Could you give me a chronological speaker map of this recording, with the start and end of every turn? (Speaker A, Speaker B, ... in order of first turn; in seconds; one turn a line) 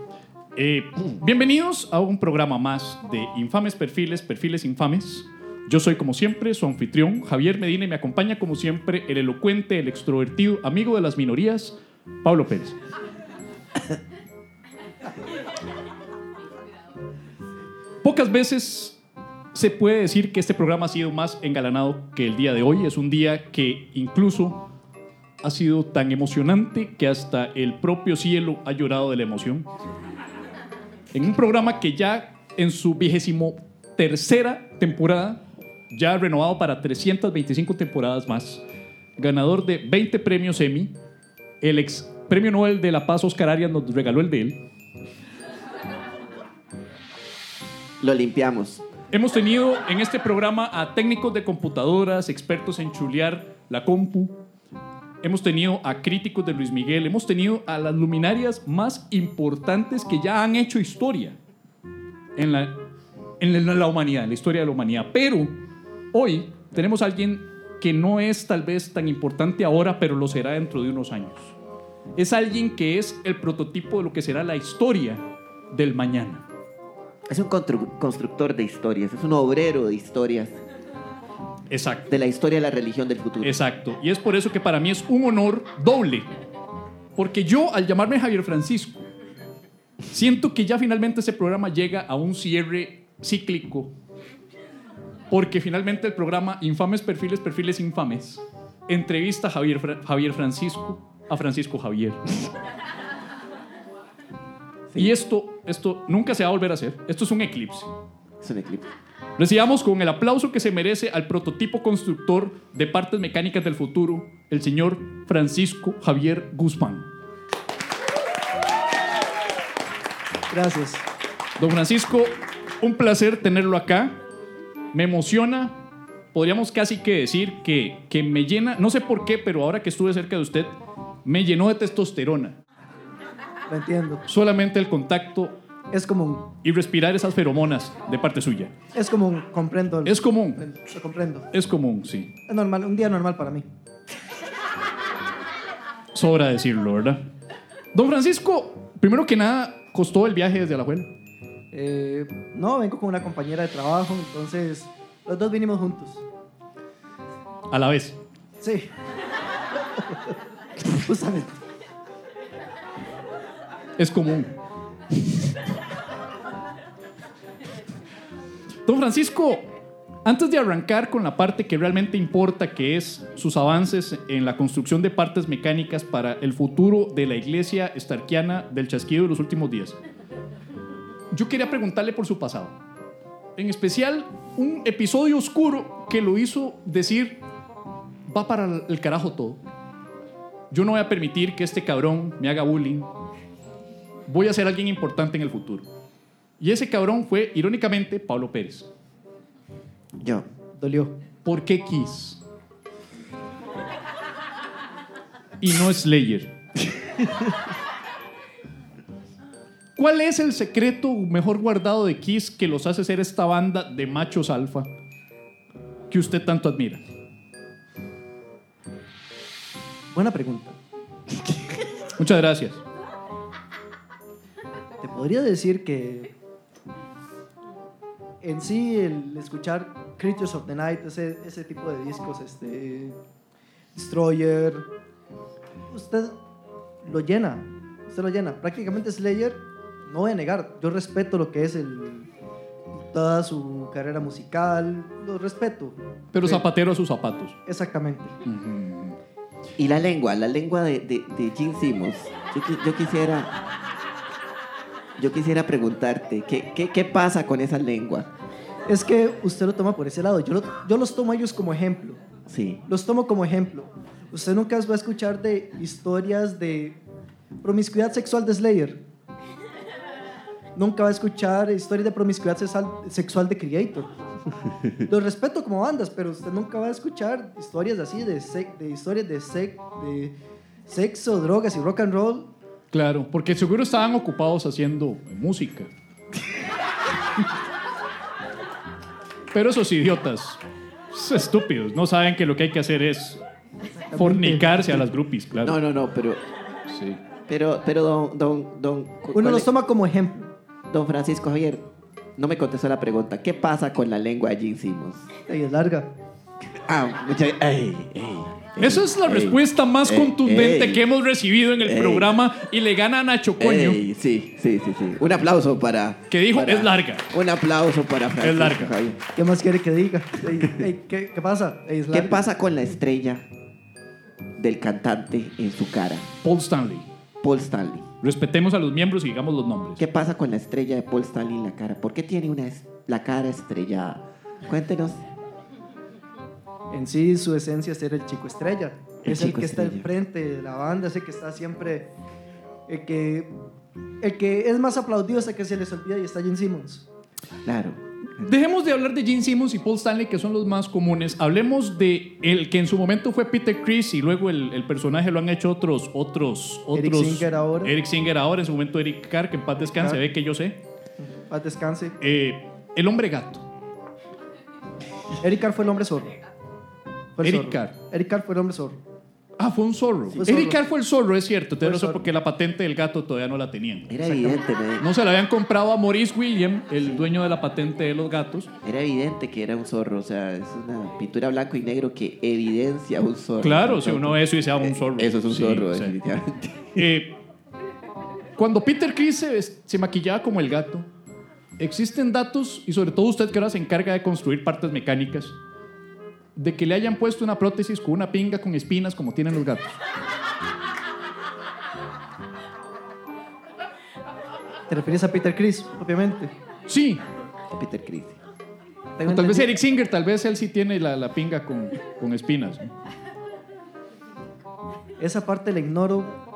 Speaker A: 0.6-12.8
Speaker A: 18.0-19.0
Speaker A: 19.5-24.7
Speaker A: 25.4-29.7
Speaker A: 31.1-38.6
Speaker A: 39.2-41.0
Speaker A: 41.6-44.6
Speaker B: 48.0-48.8
Speaker A: 49.1-54.4
Speaker A: 55.2-61.4
Speaker A: 62.4-62.8
Speaker A: 63.4-65.5
Speaker A: 66.1-71.6
Speaker A: 72.2-76.5
Speaker B: 77.3-80.6
Speaker A: 81.7-82.1
Speaker B: 82.1-83.5
Speaker A: 83.4-86.3
Speaker A: 87.2-89.1
Speaker A: 90.1-93.9
Speaker A: 95.3-102.4
Speaker A: 105.0-107.9
Speaker B: 108.4-108.9
Speaker A: 109.4-117.1
Speaker C: 120.5-121.0
Speaker A: 121.6-124.2
Speaker A: 124.9-125.8
Speaker A: 126.3-132.6
Speaker C: 133.7-134.2
Speaker A: 134.3-135.5
Speaker C: 135.9-136.5
Speaker A: 136.6-138.7
Speaker C: 138.9-141.5
Speaker A: 140.1-140.6
Speaker A: 141.5-142.3
Speaker C: 142.5-143.7
Speaker A: 146.1-147.2
Speaker A: 147.9-151.1
Speaker C: 151.7-156.2
Speaker A: 157.7-158.2
Speaker C: 158.6-158.9
Speaker C: 160.8-161.5
Speaker A: 164.0-164.5
Speaker A: 168.9-169.7
Speaker A: 170.2-180.0
Speaker A: 181.3-182.8
Speaker A: 183.6-187.4
Speaker A: 188.3-189.6
Speaker A: 190.7-193.1
Speaker A: 194.3-195.9
Speaker A: 196.6-198.9
Speaker B: 200.2-200.4
Speaker C: 200.8-201.1
Speaker A: 201.4-202.4
Speaker A: 205.6-206.5
Speaker A: 210.0-214.9
Speaker A: 216.1-217.0
Speaker C: 220.1-220.8
Speaker A: 222.2-222.8
Speaker C: 225.0-226.3
Speaker C: 228.4-233.2
Speaker C: 233.9-234.9
Speaker C: 235.9-236.4
Speaker C: 237.0-242.3
Speaker C: 242.9-246.6
Speaker A: 246.3-247.6
Speaker C: 247.7-248.3
Speaker A: 248.4-249.2
Speaker B: 249.8-253.5
Speaker B: 255.2-258.3
Speaker C: 258.9-262.2
Speaker B: 262.5-262.8
Speaker C: 262.9-267.0
Speaker C: 267.6-269.0
Speaker C: 270.8-274.1
Speaker C: 275.1-280.3
Speaker C: 280.9-282.5
Speaker A: 282.9-285.9
Speaker A: 289.5-290.6
Speaker A: 291.1-293.4
Speaker C: 294.1-294.8
Speaker A: 294.2-295.8
Speaker B: 295.6-296.4
Speaker A: 296.9-297.2
Speaker B: 297.5-299.7
Speaker C: 299.4-300.5
Speaker B: 300.9-301.9
Speaker B: 302.4-305.3
Speaker C: 305.5-306.1
Speaker B: 306.9-311.0
Speaker A: 308.8-314.0
Speaker B: 311.9-312.3
Speaker B: 313.6-319.2
Speaker A: 316.3-317.3
Speaker A: 318.4-318.9
Speaker C: 319.4-322.4
Speaker B: 322.1-323.4
Speaker B: 324.6-326.3
Speaker A: 326.4-327.1
Speaker B: 327.4-328.1
Speaker A: 328.2-330.0
Speaker B: 330.0-335.2
Speaker C: 336.9-342.1
Speaker B: 339.2-340.1
Speaker C: 342.9-343.5
Speaker C: 344.2-347.1
Speaker B: 347.6-348.5
Speaker A: 348.4-360.8
Speaker C: 356.9-357.9
Speaker C: 361.2-362.2
Speaker A: 362.2-363.7
Speaker C: 365.4-366.3
Speaker C: 367.4-369.0
Speaker A: 367.4-367.9
Speaker A: 369.6-374.1
Speaker C: 370.4-370.8
Speaker C: 371.8-372.2
Speaker B: 374.1-375.1
Speaker C: 374.2-374.6
Speaker A: 375.0-378.7
Speaker B: 378.9-387.0
Speaker A: 383.6-386.1
Speaker A: 387.0-387.4
Speaker A: 388.6-391.1
Speaker A: 391.8-395.6
Speaker A: 396.6-400.0
Speaker C: 404.9-406.5
Speaker A: 406.9-407.2
Speaker B: 407.7-408.4
Speaker C: 409.2-409.7
Speaker A: 409.2-412.9
Speaker C: 415.2-416.4